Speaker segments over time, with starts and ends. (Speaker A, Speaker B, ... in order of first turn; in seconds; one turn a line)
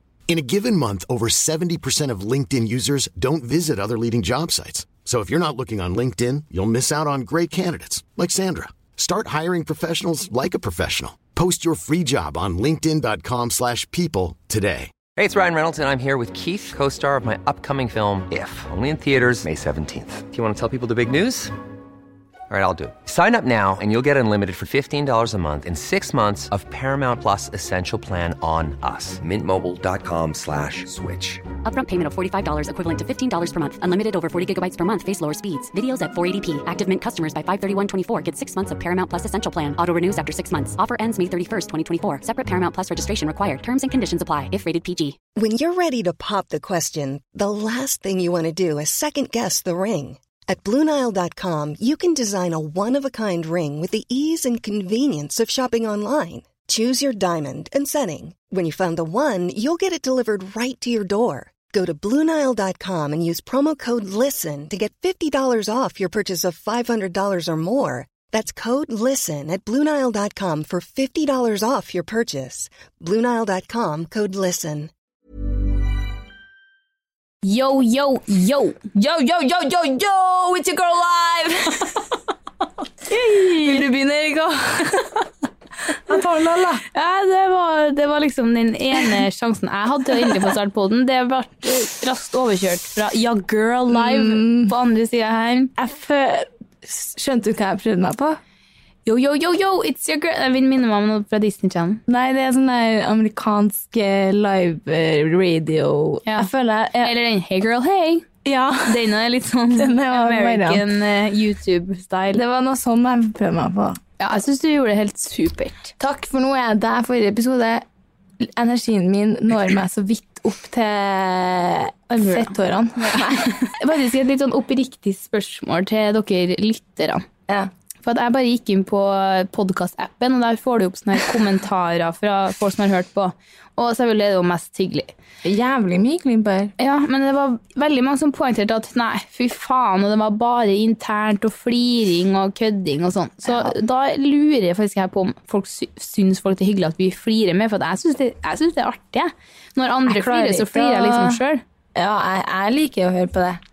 Speaker A: 0.3-14.9
Speaker B: 15.2-21.5
Speaker B: 22.5-31.4
Speaker C: 31.6-45.2
Speaker D: 45.4-74.9
Speaker E: 77.4-78.9
Speaker F: 78.9-82.0
Speaker E: 83.1-83.8
Speaker F: 83.3-85.1
Speaker F: 86.0-86.8
Speaker E: 86.9-95.7
Speaker F: 90.2-90.5
Speaker F: 93.9-94.7
Speaker F: 95.8-98.4
Speaker E: 99.0-102.0
Speaker F: 102.1-107.1
Speaker E: 107.0-108.3
Speaker F: 108.4-109.1
Speaker E: 108.8-112.4
Speaker F: 109.8-110.8
Speaker F: 112.3-114.0
Speaker E: 114.2-115.9
Speaker F: 116.0-117.8
Speaker F: 118.4-123.7
Speaker E: 122.1-127.2
Speaker E: 128.0-135.1
Speaker F: 135.4-136.7
Speaker E: 136.8-151.6
Speaker F: 143.4-143.7
Speaker F: 150.1-151.4
Speaker F: 151.9-153.6